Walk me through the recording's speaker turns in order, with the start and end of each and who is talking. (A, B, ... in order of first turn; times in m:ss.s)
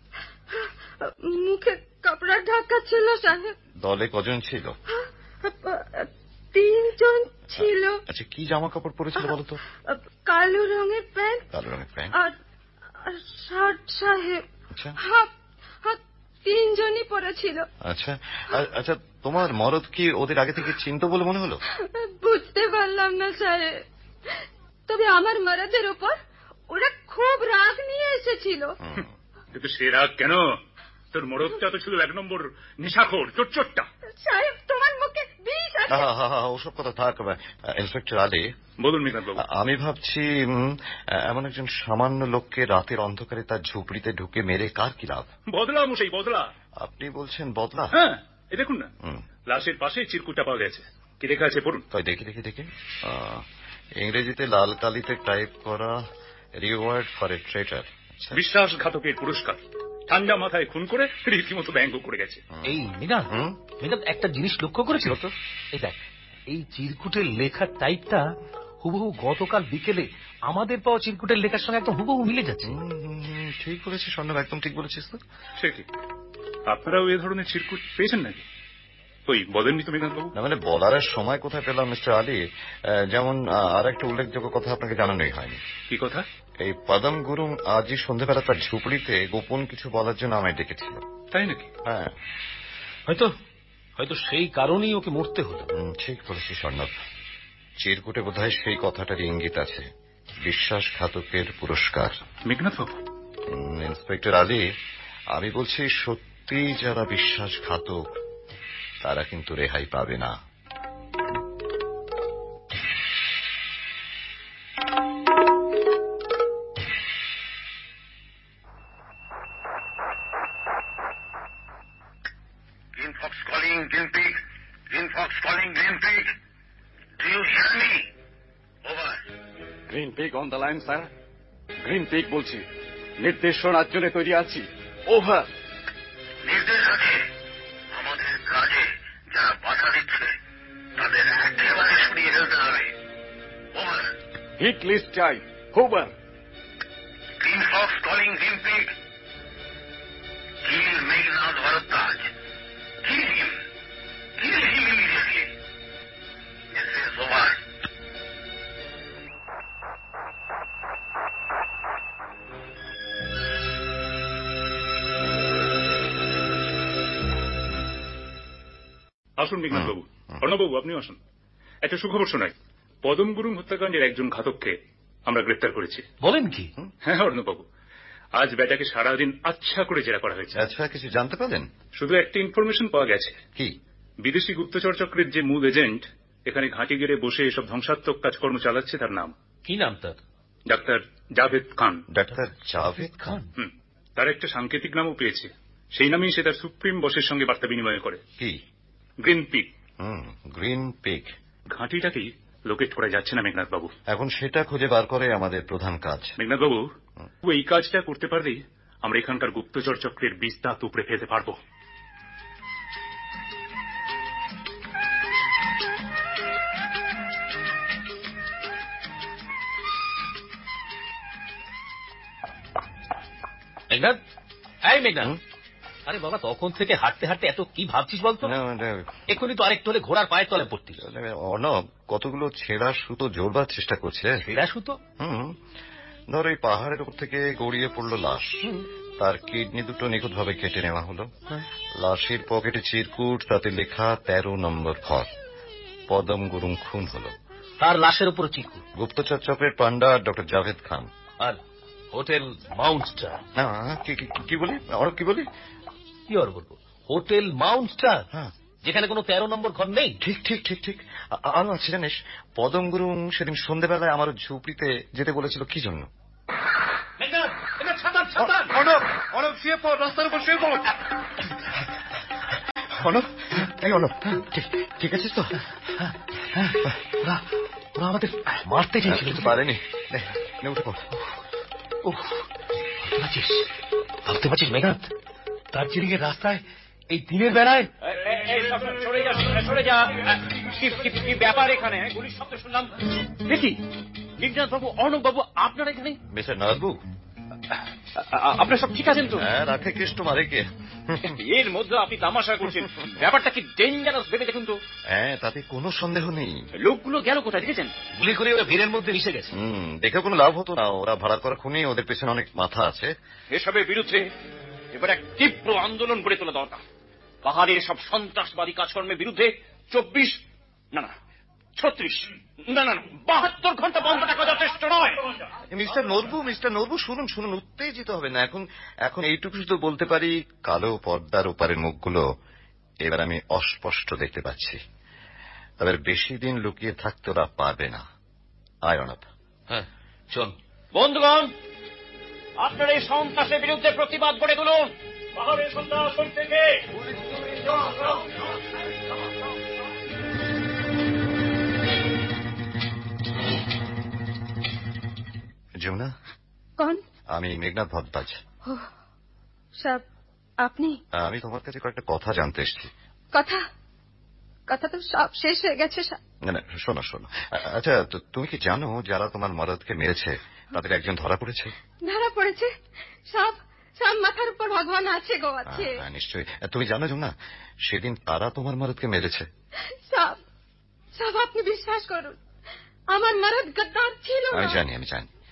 0:00.5-0:03.5 A
0:03.8-0:04.8 B
0:04.9-0:08.0 A
0:07.6-0:09.6 B
0:09.9-0:11.4 A
0:11.5-0:12.2 B
0:13.0-0:14.4 A
0:15.0-0:15.3 A
0:15.8-0:17.6 A
0:17.8-0:21.6 B
0:21.7-0:26.1 A
0:26.7-0:28.8 A
0:28.8-0:29.1 B
0:29.5-0:30.6 C
0:31.1-0:33.9 C
0:34.2-0:36.1 A
0:35.9-0:38.5 B
0:38.8-0:39.4 C
0:39.4-0:45.3 B
0:45.5-0:46.5 C
0:46.8-0:48.0 B
0:47.9-0:48.9 C
0:49.5-0:51.8 C
0:51.9-0:56.0 B
0:56.6-0:58.4 B
0:58.3-1:02.4 C
1:02.6-1:05.2 D
1:03.3-1:03.6 B
1:04.9-1:05.3 B
1:05.7-1:08.2 D
1:08.8-1:12.8 D
1:12.6-1:15.2 B
1:15.6-1:15.8 C
1:16.7-1:18.4 C
1:19.3-1:20.3 C
1:20.3-1:25.6 B
1:25.9-1:26.2 C
1:26.6-1:31.0 B
1:31.3-1:31.7 C
1:31.8-1:32.1 B
1:34.0-1:35.7 D
1:35.7-1:36.9 B
1:37.8-1:39.9 B
1:40.4-1:42.2 B
1:42.4-1:43.0 C
1:43.5-1:44.7 B
1:45.3-1:48.0 B
1:49.0-1:50.4 B
2:03.0-2:04.4 E
2:04.9-2:06.3 E
2:07.2-2:08.0 E
2:08.8-2:09.3 E
2:09.9-2:11.1 F
2:11.8-2:12.6 F
2:13.2-2:15.5 F
2:16.4-2:17.2 E
2:17.9-2:20.3 E
2:21.0-2:22.9 E
2:23.7-2:24.1 E
2:24.6-2:26.1 F
2:27.4-2:28.9 E
2:30.6-2:32.3 E
2:33.0-2:33.6 E
2:34.4-2:35.5 E
2:36.7-2:37.6 E
2:49.4-2:51.2 C
2:49.7-2:50.4 B
2:51.8-2:52.5 C
2:53.0-2:56.0 C
2:56.2-2:56.7 D
2:57.0-2:57.6 C
2:58.4-3:00.6 C
3:00.5-3:01.7 B
3:02.0-3:03.4 C
3:04.2-3:09.3 C
3:09.6-3:10.2 D
3:10.7-3:12.0 C
3:12.1-3:13.4 B
3:12.3-3:13.5 D
3:13.6-3:18.2 C
3:19.2-3:19.7 C
3:20.0-3:21.3 B
3:21.7-3:23.9 C
3:24.1-3:26.3 B
3:26.4-3:26.8 C
3:27.4-3:31.6 C
3:43.9-3:44.2 D
3:44.8-3:45.3 D
3:46.1-3:48.5 D
3:48.4-3:49.2 B
3:49.3-3:51.0 D
3:51.0-3:54.4 B
3:54.4-3:55.0 D
3:55.2-3:55.6 B
3:56.3-4:01.3 B
4:02.0-4:05.3 B
4:06.1-4:07.3 B
4:07.8-4:08.8 D
4:08.9-4:11.1 B
4:12.1-4:13.4 D
4:13.6-4:15.4 B
4:16.3-4:18.2 D
4:18.8-4:20.2 D
4:20.2-4:26.1 B
4:27.2-4:28.7 D
4:28.4-4:30.8 B
4:32.9-4:35.6 B
4:36.0-4:39.6 D
4:39.0-4:41.1 B
4:42.0-4:42.4 D
4:43.0-4:43.7 D
4:44.2-4:45.1 D
4:45.7-4:47.9 D
4:48.0-4:52.9 G
4:53.4-4:53.8 G
4:54.4-4:56.2 G
4:56.3-4:57.0 B
4:58.2-4:59.5 G
4:59.4-5:01.4 B
5:01.2-5:04.8 G
5:05.1-5:06.6 B
5:06.8-5:07.9 G
5:08.2-5:09.5 D
5:09.5-5:13.1 B
5:13.5-5:14.3 G
5:14.9-5:16.8 G
5:17.4-5:20.4 G
5:21.8-5:25.5 G
5:25.7-5:32.2 B
5:33.0-5:34.8 B
5:35.8-5:38.0 B
5:38.8-5:39.2 B
5:39.7-5:40.6 D
5:40.9-5:41.5 G
5:42.6-5:44.9 G
5:45.6-5:48.5 G
5:55.8-5:56.1 B
5:56.8-5:57.0 A
5:57.3-5:58.4 B
5:58.6-5:58.9 A
5:59.8-6:00.0 A
6:00.6-6:01.0 A
6:01.1-6:02.9 B
6:03.3-6:03.6 A
6:04.7-6:06.2 A
6:06.4-6:11.7 B
6:12.0-6:12.7 A
6:13.3-6:16.0 A
6:15.6-6:19.5 B
6:19.9-6:20.4 A
6:21.1-6:22.4 A
6:23.1-6:24.8 A
6:24.5-6:25.3 B